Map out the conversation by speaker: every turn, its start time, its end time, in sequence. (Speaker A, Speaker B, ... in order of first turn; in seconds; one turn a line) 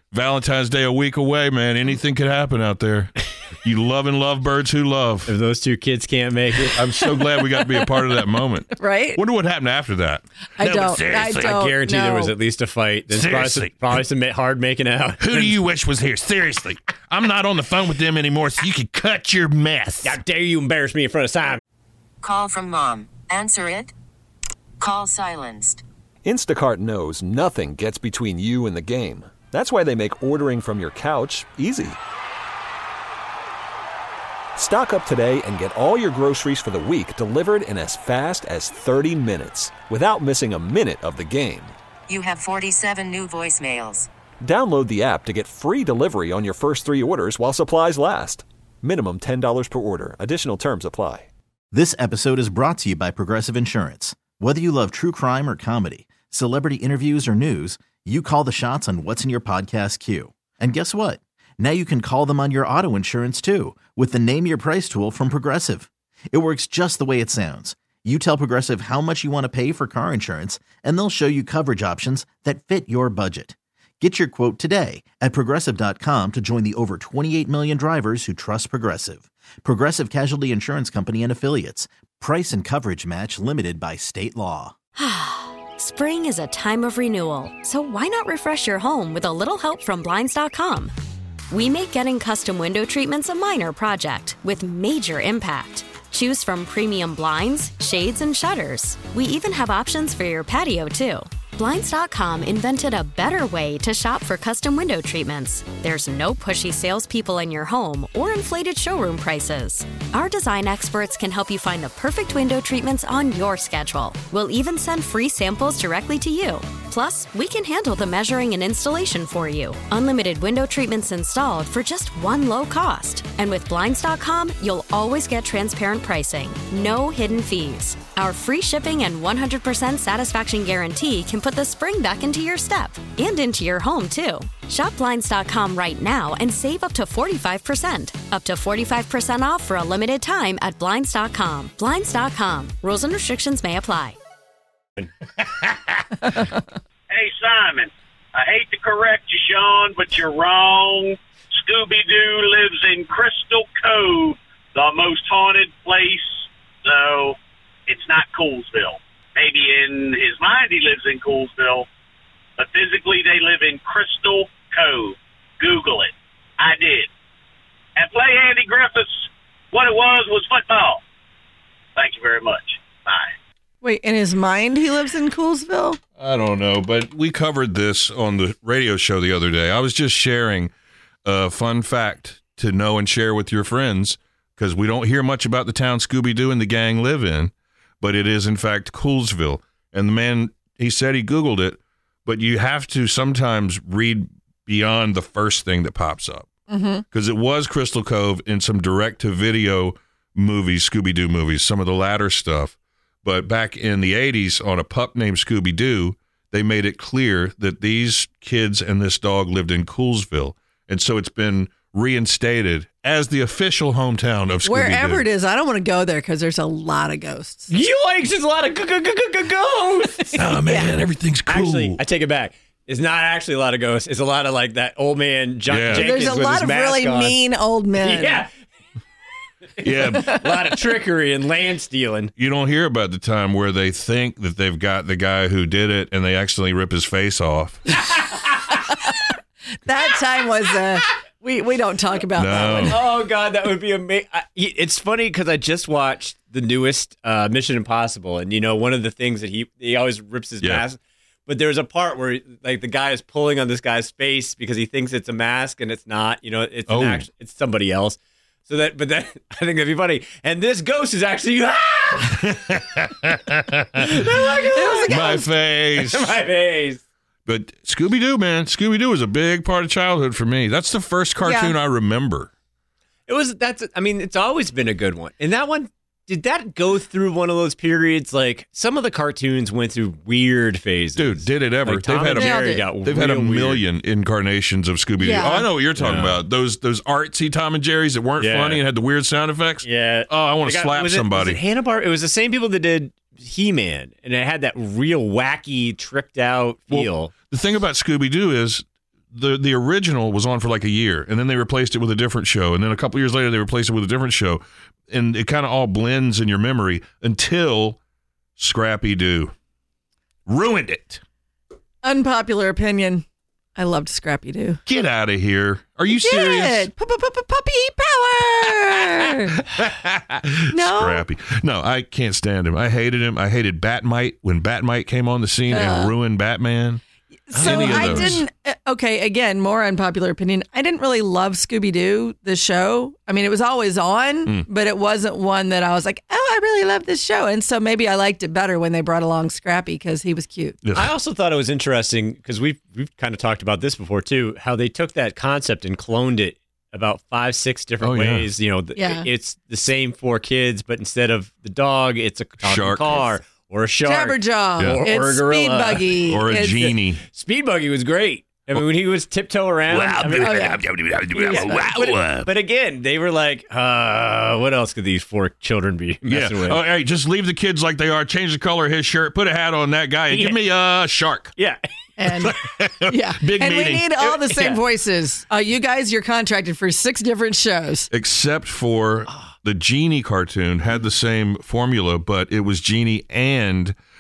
Speaker A: 0.1-5.3
Speaker B: 5.3-6.8
Speaker A: 6.8-11.6
Speaker C: 8.7-9.2
Speaker C: 10.6-12.3
Speaker B: 11.4-15.6
Speaker A: 13.1-13.8
Speaker A: 15.2-20.1
Speaker B: 20.0-21.6
Speaker D: 22.2-23.9
Speaker D: 24.8-25.8
Speaker E: 26.2-32.0
Speaker E: 34.5-41.7
Speaker D: 42.1-44.1
Speaker E: 44.4-51.3
Speaker F: 51.7-84.7
Speaker G: 85.0-90.9
Speaker G: 91.5-144.2
Speaker C: 146.3-146.6
Speaker H: 147.1-161.9
Speaker H: 162.6-167.1
Speaker H: 167.9-171.0
Speaker H: 171.9-173.3
Speaker C: 173.8-176.0
Speaker A: 176.2-180.7
Speaker A: 181.2-196.5
Speaker C: 196.7-197.0
Speaker A: 197.1-215.2
Speaker C: 214.6-217.7
Speaker B: 217.7-220.5
Speaker A: 220.4-222.0
Speaker C: 220.6-220.9
Speaker B: 221.5-227.4
Speaker A: 225.7-226.2
Speaker C: 225.9-228.4
Speaker B: 228.0-228.5
Speaker B: 229.8-232.3
Speaker A: 229.8-230.4
Speaker A: 232.4-237.8
Speaker B: 238.2-238.5
Speaker C: 239.9-242.9
Speaker A: 242.3-243.0
Speaker B: 242.9-262.6
Speaker A: 256.9-257.2
Speaker A: 262.7-264.0
Speaker B: 263.9-265.4
Speaker C: 264.7-265.4
Speaker A: 265.1-266.4
Speaker B: 266.0-267.0
Speaker A: 267.4-272.5
Speaker C: 271.4-271.7
Speaker B: 273.3-283.8
Speaker A: 281.2-291.6
Speaker C: 282.3-282.9
Speaker C: 285.2-285.7
Speaker B: 286.0-286.4
Speaker B: 288.4-288.8
Speaker B: 289.8-297.3
Speaker A: 296.9-308.0
Speaker A: 308.6-309.5
Speaker A: 310.5-311.2
Speaker C: 312.0-313.2
Speaker C: 313.8-314.8
Speaker A: 314.9-316.9
Speaker C: 316.1-319.5
Speaker A: 319.7-327.0
Speaker C: 320.7-321.2
Speaker C: 325.7-326.1
Speaker C: 327.5-340.8
Speaker A: 327.5-328.4
Speaker B: 327.6-328.4
Speaker A: 340.8-341.1
Speaker B: 340.9-356.1
Speaker A: 348.0-348.5
Speaker C: 348.9-349.2
Speaker A: 352.6-353.3
Speaker C: 354.0-356.8
Speaker A: 354.8-355.1
Speaker A: 356.0-357.2
Speaker B: 357.3-360.8
Speaker A: 359.9-362.5
Speaker C: 360.4-360.8
Speaker C: 361.4-361.9
Speaker B: 361.4-366.8
Speaker A: 366.2-371.5
Speaker B: 370.3-370.6
Speaker B: 371.6-371.8
Speaker C: 372.2-372.5
Speaker A: 372.3-374.2
Speaker C: 373.1-378.1
Speaker B: 374.2-374.8
Speaker A: 378.1-383.9